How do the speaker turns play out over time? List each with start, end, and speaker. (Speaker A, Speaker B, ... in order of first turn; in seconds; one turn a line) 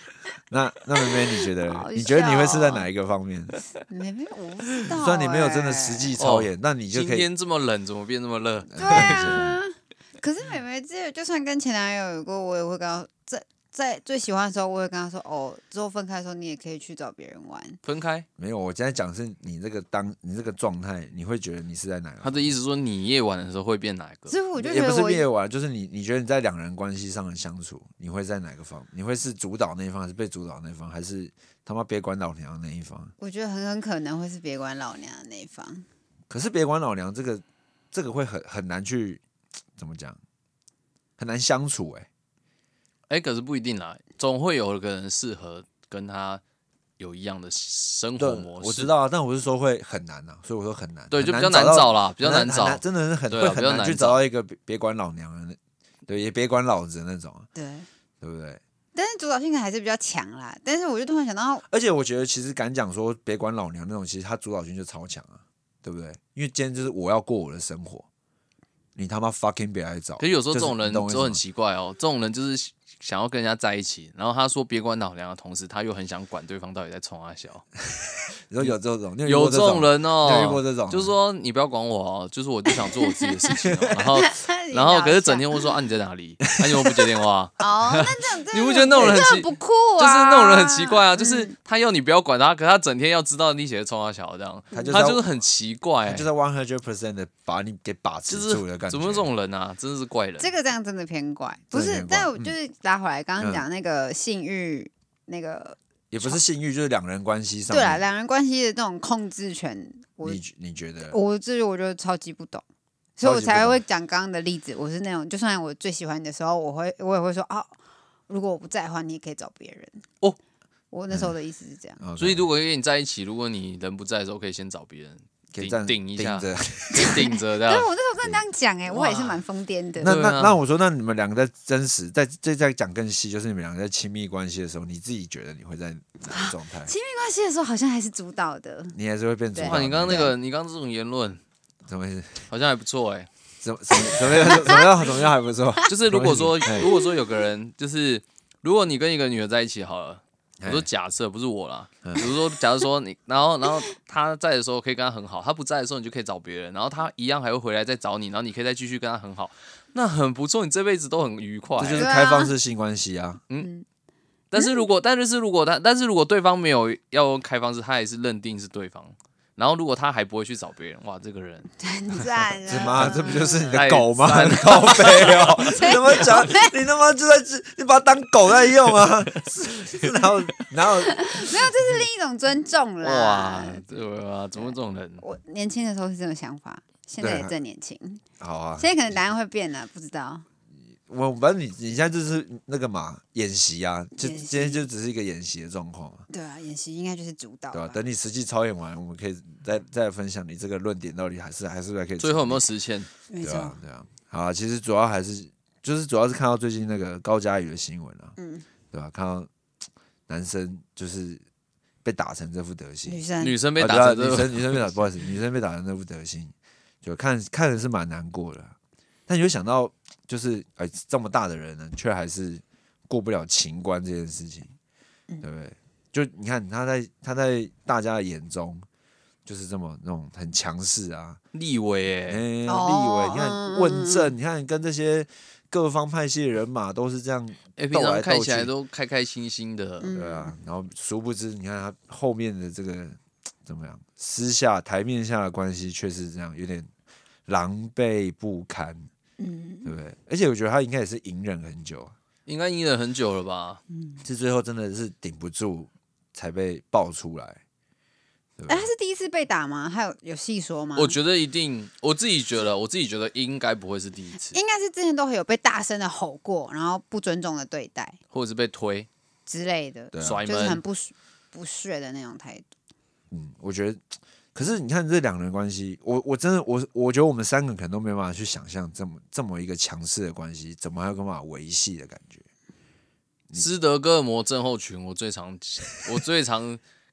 Speaker A: 0.5-3.6
Speaker B: 1.6-2.9
Speaker B: 3.9-6.2
Speaker A: 4.9-7.3
Speaker C: 6.2-9.4
Speaker A: 8.7-9.6
Speaker B: 8.8-17.8
Speaker C: 17.9-18.3
Speaker A: 18.4-22.5
Speaker C: 22.2-24.3
Speaker B: 24.3-25.3
Speaker A: 24.6-33.1
Speaker B: 33.2-35.9
Speaker A: 36.3-39.2
Speaker A: 39.8-40.2
Speaker A: 41.2-42.1
Speaker C: 43.1-46.4
Speaker C: 47.0-48.9
Speaker A: 48.2-57.5
Speaker C: 51.1-54.2
Speaker B: 57.5-57.9
Speaker A: 58.2-58.6
Speaker B: 58.9-61.6
Speaker A: 61.7-68.1
Speaker A: 69.0-71.4
Speaker C: 70.2-77.7
Speaker A: 77.9-81.1
Speaker C: 79.2-96.3
Speaker B: 82.8-83.5
Speaker A: 83.7-84.0
Speaker B: 84.1-85.8
Speaker A: 86.6-87.0
Speaker B: 87.6-91.5
Speaker B: 94.7-95.0
Speaker A: 94.7-95.3
Speaker A: 96.0-99.3
Speaker C: 98.3-100.5
Speaker B: 100.4-106.4
Speaker A: 101.7-102.5
Speaker A: 106.1-108.0
Speaker B: 107.7-110.4
Speaker A: 110.2-111.2
Speaker B: 111.1-112.7
Speaker B: 113.2-117.8
Speaker A: 113.2-113.8
Speaker B: 118.3-120.0
Speaker B: 120.9-122.0
Speaker A: 122.0-122.5
Speaker C: 122.2-127.9
Speaker A: 125.5-127.2
Speaker B: 127.0-130.2
Speaker C: 128.9-129.4
Speaker C: 130.0-130.6
Speaker A: 130.0-136.9
Speaker B: 136.3-139.0
Speaker A: 138.9-140.3
Speaker B: 139.6-140.3
Speaker C: 139.6-141.4
Speaker A: 141.9-142.5
Speaker C: 142.5-143.3
Speaker A: 143.6-146.9
Speaker B: 144.4-144.9
Speaker C: 145.9-162.1
Speaker A: 150.6-150.9
Speaker A: 152.0-152.3
Speaker A: 161.8-163.4
Speaker B: 161.9-162.5
Speaker B: 163.6-163.8
Speaker C: 164.5-171.7
Speaker B: 164.6-164.8
Speaker B: 171.8-173.8
Speaker A: 172.7-181.5
Speaker C: 173.7-176.3
Speaker B: 175.6-176.7
Speaker B: 181.1-183.8
Speaker C: 183.0-185.2
Speaker B: 184.6-188.2
Speaker A: 187.2-187.5
Speaker A: 188.4-188.9
Speaker B: 188.8-190.4
Speaker A: 191.1-196.3
Speaker B: 194.2-194.9
Speaker B: 196.3-198.0
Speaker A: 197.7-202.7
Speaker C: 202.2-203.1
Speaker B: 203.3-203.8
Speaker A: 203.4-208.3
Speaker B: 208.4-208.7
Speaker A: 208.9-209.5
Speaker A: 210.3-211.4
Speaker A: 212.0-213.2
Speaker B: 213.1-213.6
Speaker C: 213.4-214.9
Speaker A: 213.8-218.8
Speaker A: 219.3-224.7
Speaker A: 225.4-228.9
Speaker A: 229.5-231.4
Speaker C: 231.5-232.4
Speaker A: 232.3-238.7
Speaker B: 232.7-234.3
Speaker C: 237.8-240.1
Speaker B: 240.0-240.5
Speaker A: 240.1-246.9
Speaker A: 247.5-249.1
Speaker B: 249.4-249.9
Speaker A: 249.8-252.1
Speaker C: 252.5-253.8
Speaker B: 254.0-254.2
Speaker A: 254.2-257.6
Speaker A: 258.6-258.9
Speaker B: 258.7-261.2
Speaker C: 261.0-264.6
Speaker B: 264.5-268.2
Speaker C: 268.3-269.1
Speaker B: 269.5-272.7
Speaker A: 270.1-270.5
Speaker C: 270.2-270.8
Speaker A: 273.3-274.0
Speaker A: 274.6-282.4
Speaker C: 283.6-286.8